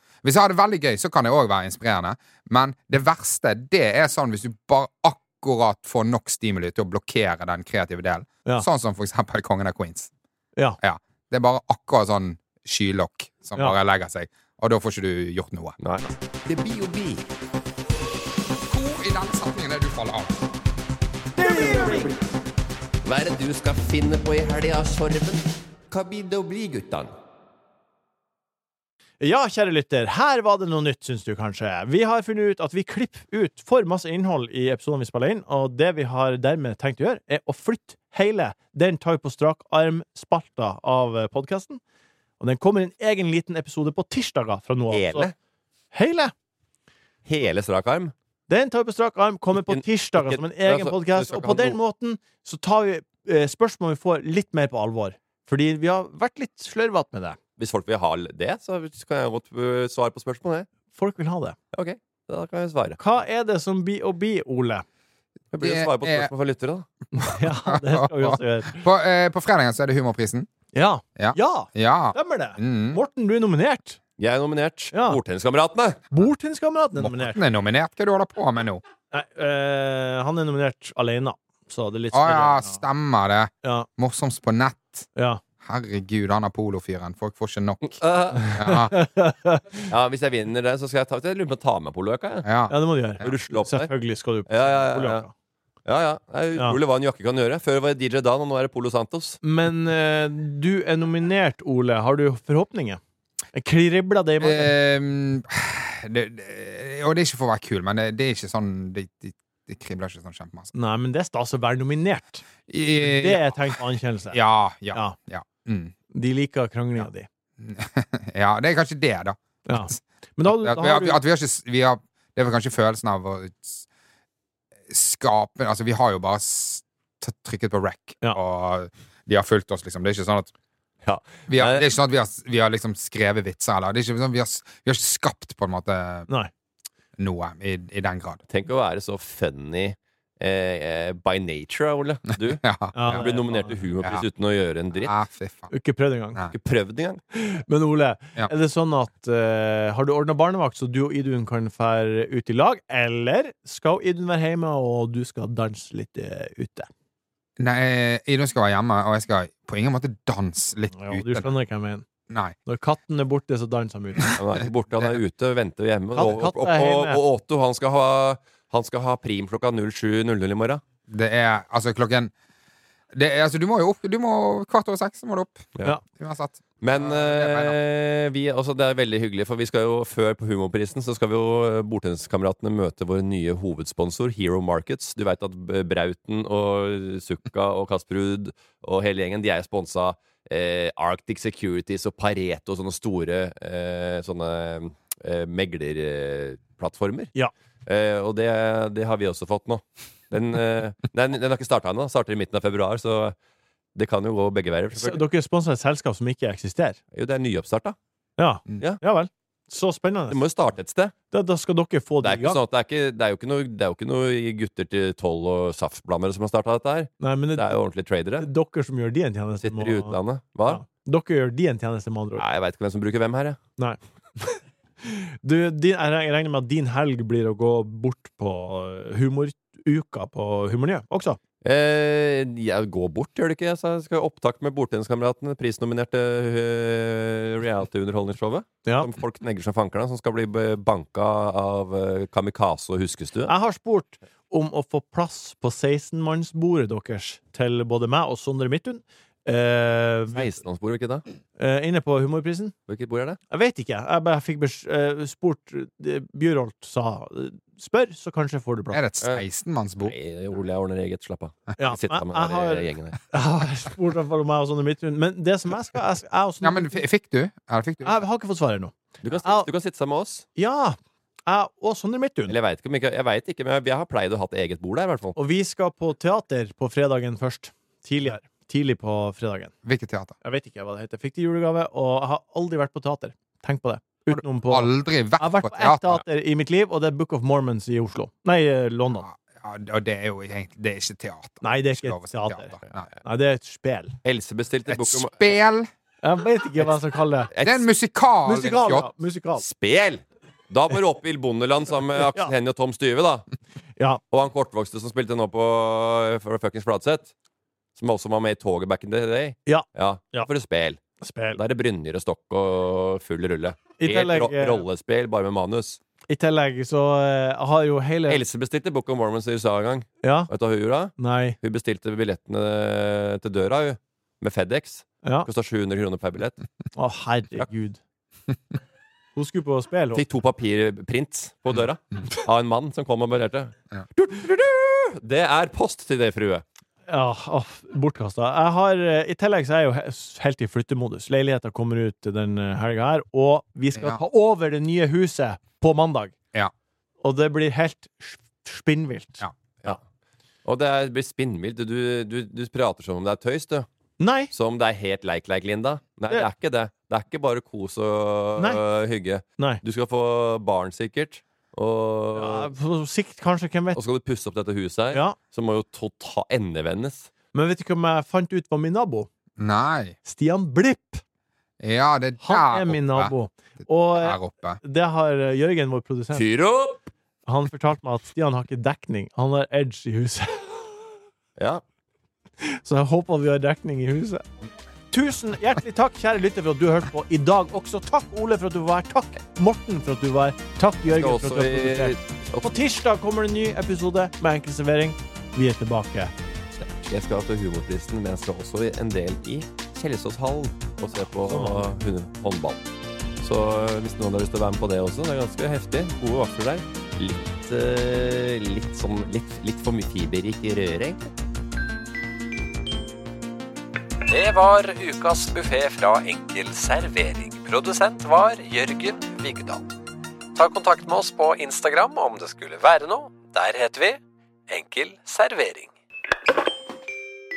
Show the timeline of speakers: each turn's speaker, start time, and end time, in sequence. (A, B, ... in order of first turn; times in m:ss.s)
0:00.2-0:10.1 A
0:10.8-0:15.8 A
0:15.8-0:17.2 B
0:18.7-0:20.5 A
0:21.3-0:22.1 C
0:21.6-0:22.0 B
0:23.0-0:27.1 B
0:29.2-0:41.8 C
0:42.4-0:45.3 C
0:44.9-0:45.3 B
0:45.9-0:46.3 C
0:47.2-0:48.1 B
0:48.5-0:57.4 C
0:49.6-0:51.8 B
0:57.6-1:00.7 B
1:00.9-1:01.6 C
1:01.7-1:03.0 B
1:03.0-1:04.8 C
1:05.5-1:06.8 B
1:05.6-1:06.3 A
1:07.1-1:08.8 C
1:07.3-1:10.5 A
1:10.7-1:14.0 C
1:11.2-1:13.0 A
1:14.2-1:16.0 B
1:14.9-1:15.2 C
1:16.1-1:17.4 C
1:17.0-1:18.8 A
1:19.1-1:22.8 C
1:22.1-1:25.1 A
1:23.6-1:23.9 C
1:25.2-1:25.4 C
1:25.6-1:28.0 A
1:27.8-1:28.8 B
1:28.4-1:29.8 C
1:28.5-1:29.0 A
1:29.9-1:32.5 B
1:32.4-1:33.4 A
1:32.7-1:35.3 C
1:33.2-1:33.9 B
1:34.5-1:35.2 B
1:35.8-1:39.4 B
1:39.4-1:43.0 C
1:43.5-1:44.7 C
1:44.4-1:50.7 A
1:50.7-1:52.4 C
1:52.7-1:53.6 A
1:53.0-1:54.4 C
1:54.3-1:55.9 A
1:56.1-1:57.3 C
1:57.6-2:03.8 A
1:59.6-2:01.2 C
2:04.9-2:10.5 A
2:11.0-2:11.8 B
2:11.5-2:16.3 A
2:17.2-2:18.4 A
2:18.5-2:25.1 B
2:22.6-2:23.2 A
2:22.9-2:23.8 C
2:25.0-2:25.7 A
2:25.7-2:26.4 C
2:26.5-2:27.2 B
2:27.3-2:36.9 C
2:37.6-2:41.5 A
2:40.9-2:42.0 C
2:42.3-2:42.6 A
2:42.6-2:44.4 C
2:44.4-2:50.8 B
2:46.1-2:47.2 C
2:51.1-2:52.3 A
2:53.1-2:57.8 A
2:56.8-3:17.3 B
3:17.8-3:23.3 B
3:24.0-3:25.2 B
3:24.9-3:27.0 C
3:27.1-3:28.0 B
3:28.4-3:30.4 C
3:30.3-3:31.1 B
3:31.3-3:32.6 C
3:32.2-3:38.5 B
3:37.2-3:37.7 C
3:38.4-3:42.4 C
3:39.6-3:40.8 B
3:42.4-3:43.6 B
3:43.8-3:51.4 C
3:51.6-4:03.5 B
4:03.5-4:10.5 C
4:10.3-4:11.2 B
4:11.6-4:12.7 C
4:12.9-4:13.4 B
4:13.5-4:19.0 C
4:18.9-4:20.1 A
4:20.0-4:23.2 B
4:21.8-4:27.0 C
4:26.6-4:28.2 A
4:28.0-4:29.7 C
4:29.2-4:30.4 B
4:30.6-4:32.5 C
4:32.5-4:35.4 B
4:35.4-4:39.7 C
4:39.8-4:40.3 A
4:40.4-4:49.3 C
4:44.3-4:46.2 A
4:49.2-4:53.1 A
4:51.6-4:54.2 C
4:54.2-4:55.5 B
4:54.9-4:55.9 A
4:56.2-4:57.5 C
4:57.5-4:57.9 B
4:57.6-4:59.1 A
4:58.4-4:59.6 C
4:59.6-5:03.4 B
5:04.3-5:07.3 B
5:08.0-5:11.0 B
5:09.6-5:10.5 C
5:11.2-5:11.6 C
5:11.5-5:16.0 B
5:14.0-5:14.8 C
5:16.3-5:18.4 C
5:18.3-5:26.6 B
5:20.2-5:20.5 C
5:21.2-5:21.6 C
5:27.0-5:28.0 C
5:29.4-5:30.2 C
5:30.1-5:36.6 B
5:37.1-5:46.3 C
5:43.9-5:44.2 A
5:47.2-5:50.0 C
5:50.6-5:53.9 B
5:54.2-5:54.5 C
5:54.5-6:02.7 B
6:02.3-6:04.0 C
6:03.9-6:07.3 B
6:05.1-6:05.4 C
6:07.5-6:09.3 C
6:09.6-6:10.2 A
6:10.2-6:11.2 C
6:11.8-6:13.3 A
6:12.4-6:16.4 C
6:14.2-6:14.8 A
6:16.3-6:17.0 B
6:17.4-6:21.0 C
6:21.6-6:21.8 B
6:22.6-6:24.4 C
6:25.1-6:36.3 C
6:31.1-6:32.8 B
6:36.8-6:42.8 B
6:41.4-6:41.9 C
6:43.4-6:51.3 B
6:54.3-6:59.8 D
7:00.5-7:05.9 D